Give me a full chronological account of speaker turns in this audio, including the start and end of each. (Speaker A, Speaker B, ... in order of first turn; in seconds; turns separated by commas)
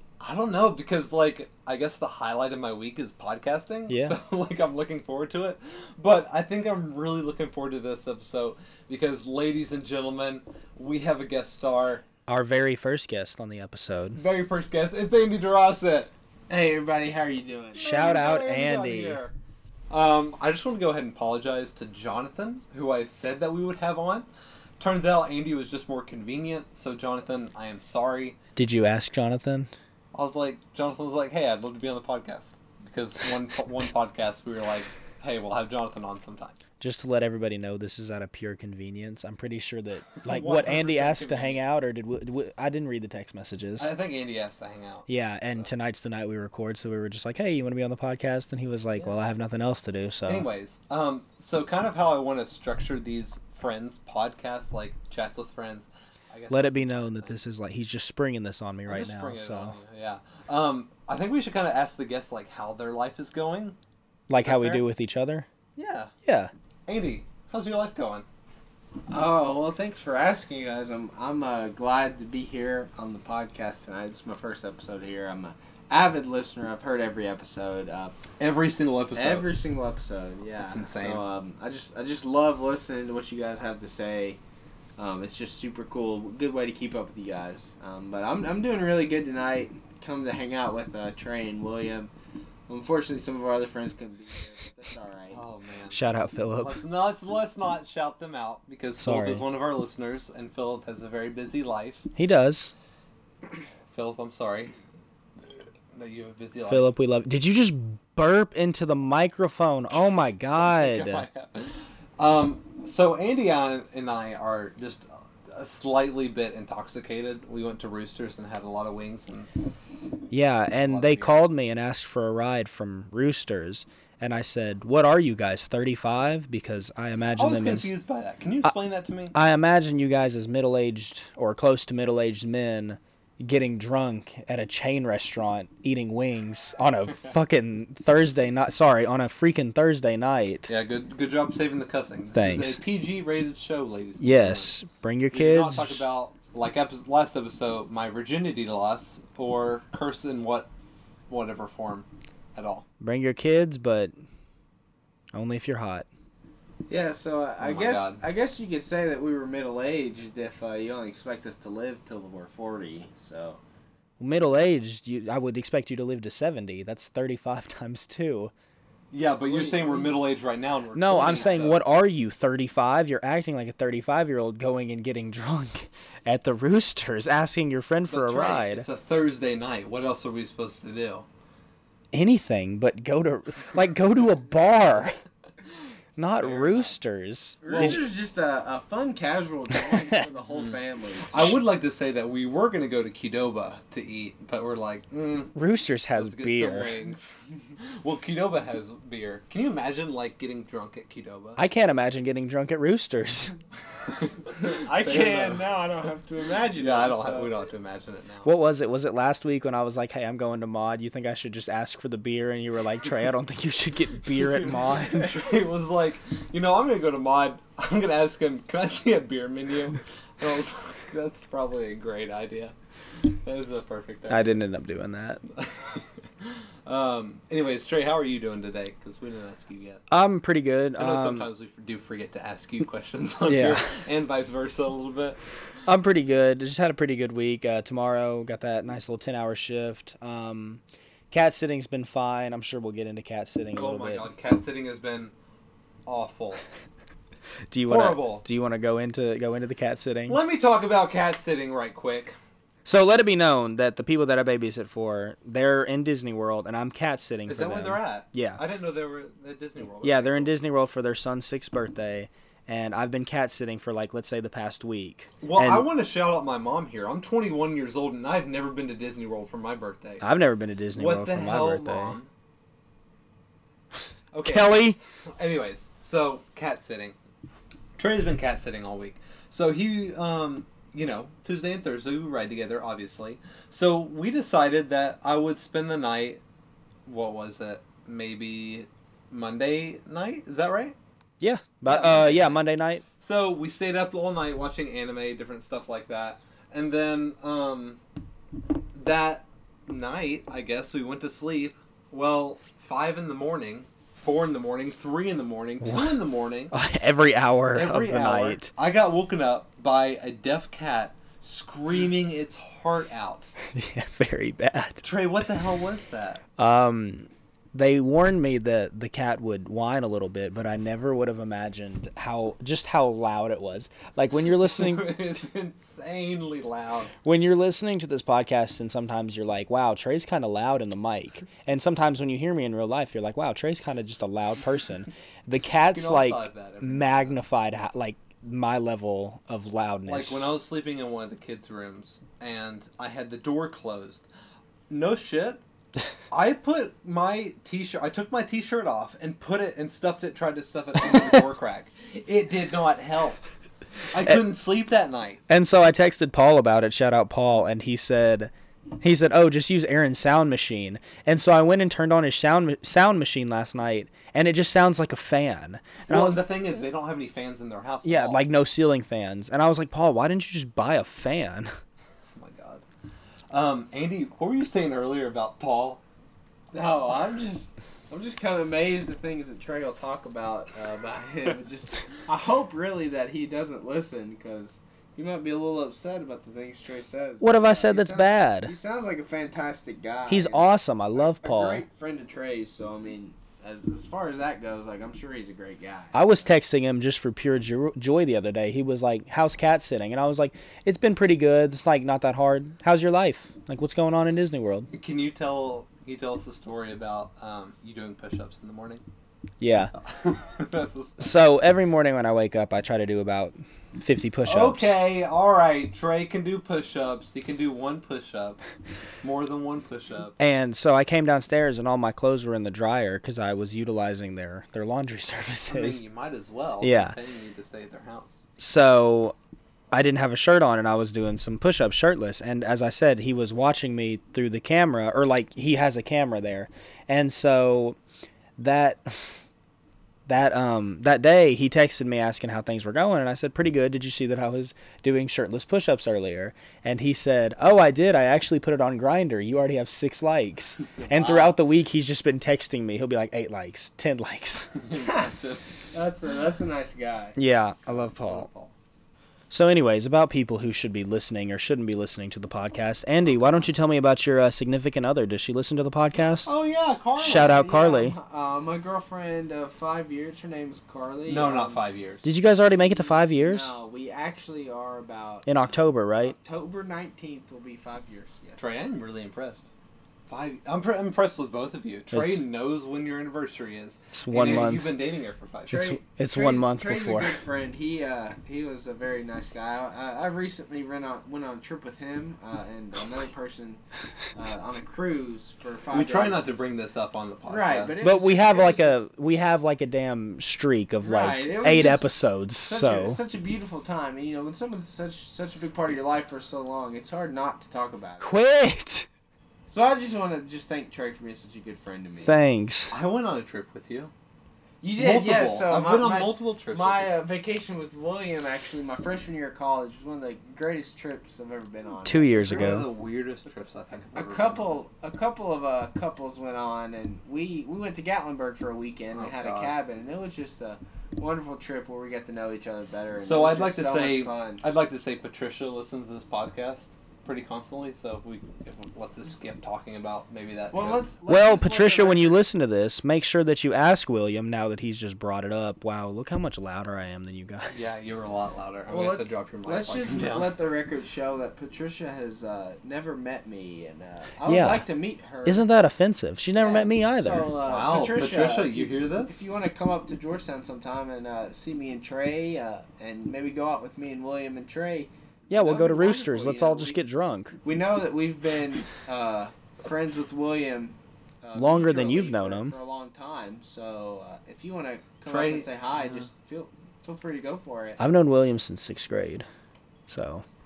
Speaker A: 0.2-12.0, Speaker B: 3.9-4.2, Speaker B: 12.3-14.2, Speaker A: 14.2-16.1, Speaker C: 16.5-17.9, Speaker A: 17.8-19.3, Speaker B: 17.8-19.2, Speaker A: 19.9-24.3, Speaker A: 24.8-28.4, Speaker B: 28.6-29.7, Speaker A: 30.1-36.5, Speaker B: 36.8-43.9, Speaker A: 40.2-41.6, Speaker A: 43.8-45.1, Speaker B: 45.1-50.5, Speaker A: 50.3-57.3, Speaker B: 56.5-59.8, Speaker A: 58.9-63.8, Speaker B: 64.3-65.5, Speaker A: 64.4-64.8, Speaker A: 65.8-66.1, Speaker B: 66.2-66.5, Speaker A: 66.9-68.3, Speaker C: 69.1-78.2, Speaker A: 78.4-79.5, Speaker C: 79.1-84.4, Speaker A: 80.6-81.2, Speaker C: 85.0-92.1, Speaker C: 92.7-95.4, Speaker A: 95.3-96.0, Speaker B: 95.9-96.8, Speaker A: 96.6-102.1, Speaker B: 99.0-99.4, Speaker B: 102.2-102.7, Speaker A: 103.9-104.7, Speaker A: 105.9-106.9, Speaker B: 106.7-111.2, Speaker A: 110.5-119.5, Speaker B: 120.3-127.9, Speaker A: 120.7-121.4, Speaker A: 127.4-129.3, Speaker B: 129.3-140.7, Speaker A: 140.7-144.7, Speaker B: 142.3-142.8, Speaker B: 144.2-146.0, Speaker A: 145.3-150.7, Speaker A: 151.3-152.8, Speaker B: 153.0-154.1, Speaker B: 155.3-156.1, Speaker C: 156.9-163.6, Speaker A: 157.6-158.2, Speaker B: 164.2-168.5, Speaker A: 169.1-171.8, Speaker C: 169.4-170.2, Speaker B: 170.9-178.9, Speaker A: 178.1-181.2, Speaker B: 182.1-185.2, Speaker B: 186.2-188.0, Speaker A: 186.4-186.9, Speaker C: 187.6-191.6, Speaker A: 187.7-188.0, Speaker A: 191.3-195.5, Speaker B: 195.6-197.0, Speaker A: 196.2-201.6, Speaker B: 201.6-203.6, Speaker A: 204.1-205.7, Speaker C: 204.5-207.5, Speaker A: 206.8-208.5, Speaker B: 208.4-215.4, Speaker A: 214.5-224.6, Speaker B: 224.3-225.4, Speaker A: 225.5-230.0, Speaker B: 230.1-231.5, Speaker A: 231.0-235.4, Speaker B: 233.5-233.9, Speaker B: 235.9-244.3, Speaker A: 243.8-245.3, Speaker A: 246.1-246.6, Speaker B: 247.7-250.4, Speaker A: 247.9-248.4, Speaker A: 250.3-252.3, Speaker B: 252.8-258.6, Speaker A: 257.5-260.5, Speaker B: 260.0-265.9, Speaker A: 265.4-270.2, Speaker B: 270.2-272.1, Speaker A: 271.0-272.3, Speaker A: 274.3-277.1, Speaker B: 274.4-275.0, Speaker A: 278.0-286.4, Speaker A: 287.1-290.9, Speaker B: 291.4-293.0, Speaker A: 291.9-292.6, Speaker A: 293.2-298.0, Speaker A: 298.9-306.7, Speaker B: 305.8-306.1, Speaker B: 306.7-308.7, Speaker A: 307.7-313.5, Speaker B: 313.7-315.0, Speaker A: 315.0-316.4, Speaker B: 316.6-325.2, Speaker A: 324.6-327.1, Speaker B: 327.2-340.4, Speaker A: 335.9-337.3, Speaker A: 340.1-344.3, Speaker A: 344.9-345.6, Speaker A: 346.3-353.4, Speaker A: 354.1-355.4, Speaker B: 355.5-366.4, Speaker A: 366.1-368.4, Speaker B: 368.0-371.7, Speaker A: 372.3-372.8, Speaker A: 373.5-376.0, Speaker C: 376.7-396.5, Speaker B: 387.4-388.7, Speaker B: 390.3-391.8, Speaker B: 396.1-404.9, Speaker A: 404.9-409.0, Speaker B: 409.6-409.9, Speaker A: 410.0-411.3, Speaker B: 411.2-414.9, Speaker A: 414.4-418.6, Speaker A: 419.2-420.3, Speaker B: 420.4-426.0, Speaker A: 425.7-428.4, Speaker B: 426.8-427.1, Speaker B: 428.6-429.3, Speaker B: 429.9-438.0, Speaker B: 438.6-439.4, Speaker B: 440.3-454.8, Speaker C: 451.0-451.6, Speaker A: 454.8-455.6, Speaker C: 455.0-455.3, Speaker C: 455.9-457.3, Speaker B: 457.4-458.5, Speaker A: 457.9-458.7, Speaker B: 459.5-466.5, Speaker A: 466.4-467.6, Speaker B: 467.2-468.1, Speaker C: 467.2-471.8, Speaker A: 471.3-472.2, Speaker B: 472.2-473.7, Speaker C: 472.7-475.7, Speaker B: 475.4-476.3, Speaker C: 476.2-478.6, Speaker A: 478.6-479.7, Speaker A: 480.3-485.9, Speaker B: 482.1-482.4, Speaker B: 484.1-484.9, Speaker B: 485.7-487.4, Speaker C: 485.7-493.8, Speaker C: 494.3-496.7, Speaker A: 495.9-497.9, Speaker C: 497.4-499.0, Speaker B: 498.0-503.2, Speaker C: 501.0-508.4, Speaker B: 508.2-509.1, Speaker C: 509.7-512.3, Speaker B: 512.2-512.9, Speaker A: 512.9-514.1, Speaker C: 514.8-522.6, Speaker A: 515.0-517.1, Speaker B: 522.0-522.9, Speaker A: 522.5-524.8, Speaker C: 524.1-534.6, Speaker A: 529.1-529.7, Speaker A: 533.1-541.0, Speaker C: 540.7-542.4, Speaker B: 541.3-547.9, Speaker A: 547.7-550.5, Speaker C: 548.9-555.6, Speaker B: 554.5-554.9, Speaker B: 555.5-557.5, Speaker C: 556.6-567.0, Speaker A: 557.6-559.4, Speaker B: 565.5-567.5, Speaker C: 567.6-578.0, Speaker B: 571.5-572.8, Speaker A: 575.3-576.3, Speaker B: 578.0-579.5, Speaker B: 580.1-580.4